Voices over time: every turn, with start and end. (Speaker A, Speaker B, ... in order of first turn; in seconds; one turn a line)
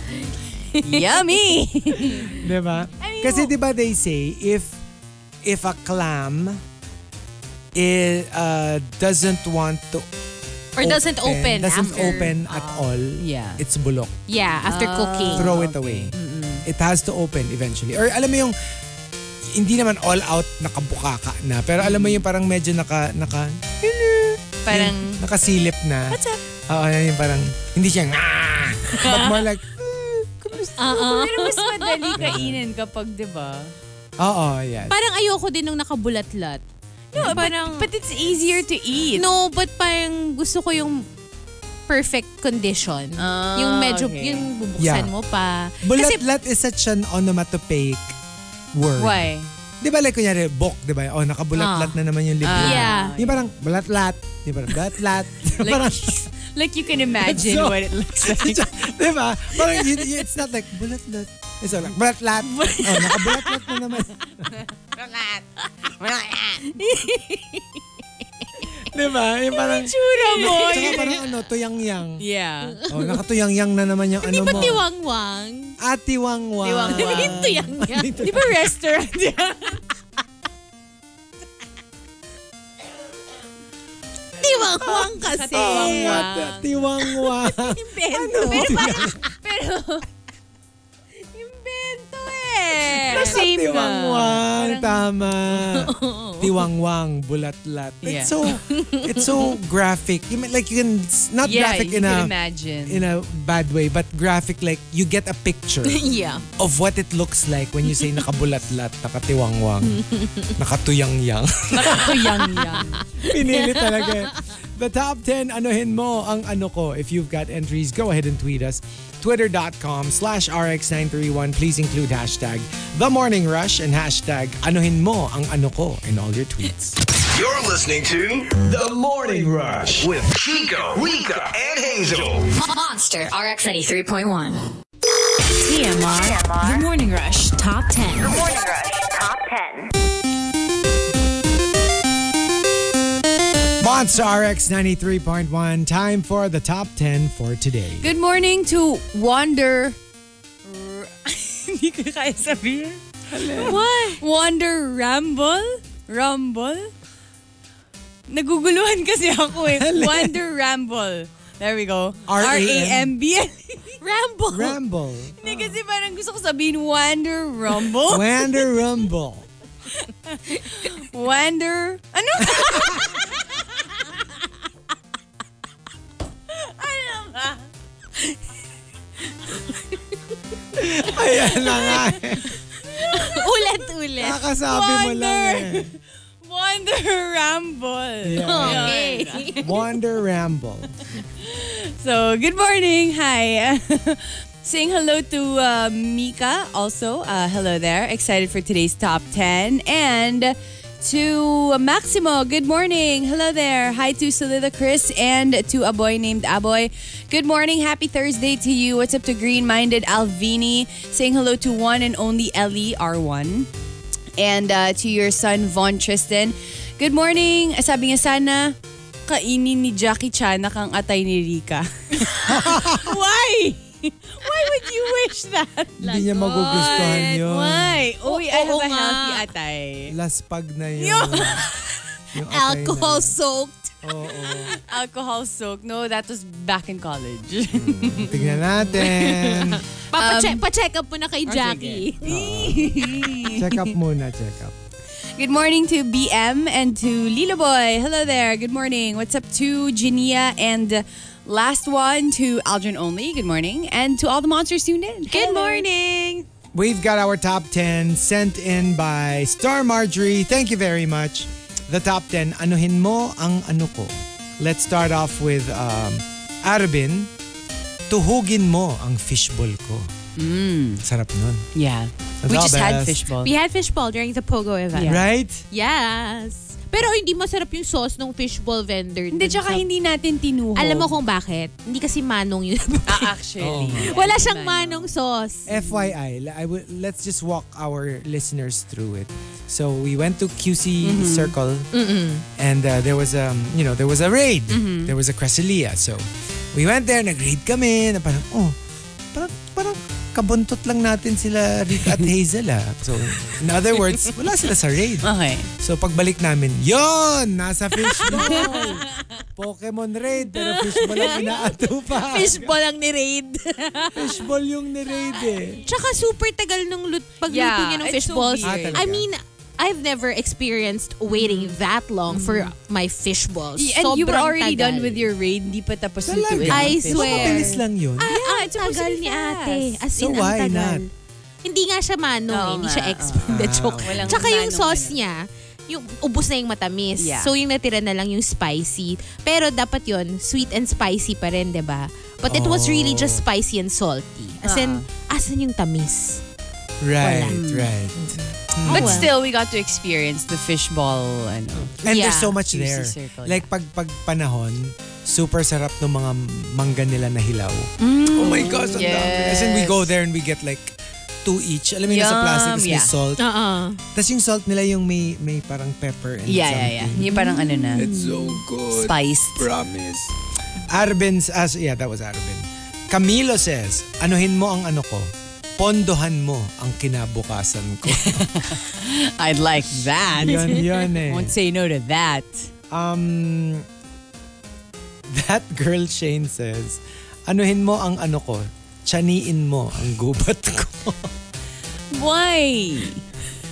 Speaker A: 0.7-1.0
Speaker B: 0.8-2.4
Speaker C: 2.3-4.8
Speaker B: 3.0-3.5
Speaker C: 5.4-6.6
Speaker C: 7.7-10.1
Speaker A: 10.8-12.9
Speaker C: 10.8-14.1
Speaker B: 11.8-12.3
Speaker B: 13.2-13.6
Speaker A: 14.3-15.5
Speaker B: 14.7-16.1
Speaker C: 15.3-16.1
Speaker A: 16.1-16.6
Speaker C: 16.6-18.5
Speaker C: 19.5-26.2
Speaker B: 21.8-22.2
Speaker B: 24.6-25.2
Speaker B: 26.1-26.4
Speaker C: 26.7-30.9
Speaker B: 28.9-29.4
Speaker A: 30.8-32.2
Speaker B: 30.8-33.7
Speaker C: 32.2-32.6
Speaker C: 34.2-35.0
Speaker A: 34.9-36.6
Speaker B: 37.1-39.2
Speaker C: 37.1-37.5
Speaker A: 37.2-37.9
Speaker A: 39.1-41.0
Speaker A: 41.9-46.2
Speaker B: 43.2-44.5
Speaker C: 44.8-45.1
Speaker C: 45.8-48.1
Speaker C: 48.7-49.3
Speaker B: 49.0-49.5
Speaker C: 49.8-56.3
Speaker A: 51.6-52.0
Speaker B: 52.4-53.5
Speaker A: 52.5-53.1
Speaker B: 55.6-58.7
Speaker C: 57.2-64.5
Speaker B: 59.6-60.0
Speaker B: 62.4-63.9
Speaker B: 64.5-66.8
Speaker A: 66.8-67.8
Speaker C: 68.8-72.2
Speaker B: 69.5-71.2
Speaker A: 70.1-71.3
Speaker B: 72.2-72.8
Speaker A: 72.8-73.2
Speaker C: 72.9-74.8
Speaker A: 74.2-75.8
Speaker B: 74.4-74.7
Speaker C: 75.8-78.5
Speaker B: 76.6-77.4
Speaker A: 76.8-78.2
Speaker B: 78.2-79.8
Speaker A: 84.4-86.3
Speaker C: 84.8-89.2
Speaker B: 85.1-86.9
Speaker A: 87.2-89.3
Speaker B: 88.0-90.1
Speaker A: 91.3-93.4
Speaker B: 92.9-95.0
Speaker C: 92.9-102.3
Speaker A: 95.7-96.6
Speaker B: 98.0-98.3
Speaker A: 98.5-99.3
Speaker B: 101.4-103.0
Speaker C: 102.9-106.0
Speaker A: 105.8-106.4
Speaker C: 106.6-110.0
Speaker A: 109.9-110.5
Speaker C: 110.6-112.4
Speaker B: 111.7-113.0
Speaker A: 112.6-114.3
Speaker C: 113.2-127.0
Speaker D: 127.2-132.5
Speaker E: 132.5-134.6
Speaker F: 135.6-137.8
Speaker G: 136.1-136.8
Speaker A: 137.7-138.1
Speaker G: 138.1-139.9
Speaker C: 143.8-148.1
Speaker B: 148.0-150.0
Speaker B: 150.6-153.0
Speaker C: 153.3-153.8
Speaker B: 153.6-156.9
Speaker A: 153.6-154.2
Speaker B: 158.3-163.9
Speaker C: 159.7-160.4
Speaker C: 162.3-163.1
Speaker A: 164.0-164.8
Speaker C: 164.5-165.4
Speaker B: 165.4-168.4
Speaker C: 168.0-169.4
Speaker B: 170.0-173.1
Speaker C: 172.4-173.1
Speaker B: 176.5-177.7
Speaker A: 179.5-180.0
Speaker C: 180.7-182.6
Speaker A: 183.0-185.2
Speaker C: 184.2-185.9
Speaker B: 185.1-185.8
Speaker B: 186.4-189.6
Speaker C: 188.2-189.0
Speaker A: 188.4-189.7
Speaker C: 189.6-190.9
Speaker B: 191.4-213.7
Speaker B: 214.4-230.1
Speaker C: 222.4-223.2
Speaker C: 226.0-228.1
Speaker A: 226.1-227.2
Speaker A: 228.2-229.4
Speaker C: 230.1-231.6
Speaker B: 231.0-231.6
Speaker C: 232.3-233.3
Speaker A: 232.4-234.0
Speaker C: 234.0-234.8
Speaker B: 234.8-238.4
Speaker C: 237.7-239.8
Speaker A: 239.0-242.4
Speaker B: 240.1-240.6
Speaker B: 241.4-243.9
Speaker C: 242.2-244.7
Speaker B: 245.4-256.3
Speaker A: 255.3-256.4
Speaker C: 256.7-267.3
Speaker C: 268.1-270.1
Speaker B: 270.4-271.0
Speaker C: 271.0-271.6
Speaker B: 271.7-273.5
Speaker C: 272.4-273.2
Speaker A: 273.4-279.9
Speaker B: 274.9-275.2
Speaker C: 275.0-275.6
Speaker B: 279.3-281.1
Speaker A: 280.7-283.3
Speaker B: 283.1-285.1
Speaker C: 283.6-284.1
Speaker A: 284.0-285.7
Speaker C: 285.6-291.9
Speaker B: 291.0-291.5
Speaker A: 291.9-292.4
Speaker C: 292.6-298.8
Speaker B: 294.7-295.1
Speaker C: 299.3-312.7
Speaker B: 305.2-305.7
Speaker A: 308.1-308.9
Speaker B: 308.2-309.4
Speaker A: 310.5-311.6
Speaker A: 312.1-314.4
Speaker C: 314.1-315.8
Speaker A: 315.8-325.2
Speaker B: 317.5-319.0
Speaker C: 318.6-319.3
Speaker B: 321.3-321.8
Speaker B: 322.3-322.7
Speaker B: 323.8-330.0
Speaker C: 326.2-328.3
Speaker A: 326.7-331.1
Speaker C: 330.1-331.0
Speaker A: 331.6-346.4
Speaker B: 332.5-335.2
Speaker C: 333.4-334.4
Speaker B: 337.2-337.5
Speaker C: 342.4-343.4
Speaker B: 344.6-345.1
Speaker C: 347.0-349.3
Speaker A: 347.2-347.6
Speaker B: 347.5-347.9
Speaker A: 348.1-349.3
Speaker B: 348.9-353.7
Speaker C: 351.9-363.4
Speaker A: 352.1-352.5
Speaker B: 358.1-360.1
Speaker B: 362.1-363.1
Speaker A: 363.4-364.0
Speaker C: 364.1-367.2
Speaker B: 366.5-368.1
Speaker A: 367.2-368.6
Speaker C: 367.9-370.3
Speaker B: 368.9-369.7
Speaker C: 370.9-378.5
Speaker B: 378.1-382.7
Speaker C: 380.4-381.5
Speaker C: 382.9-383.9
Speaker C: 385.3-391.3
Speaker B: 392.1-393.2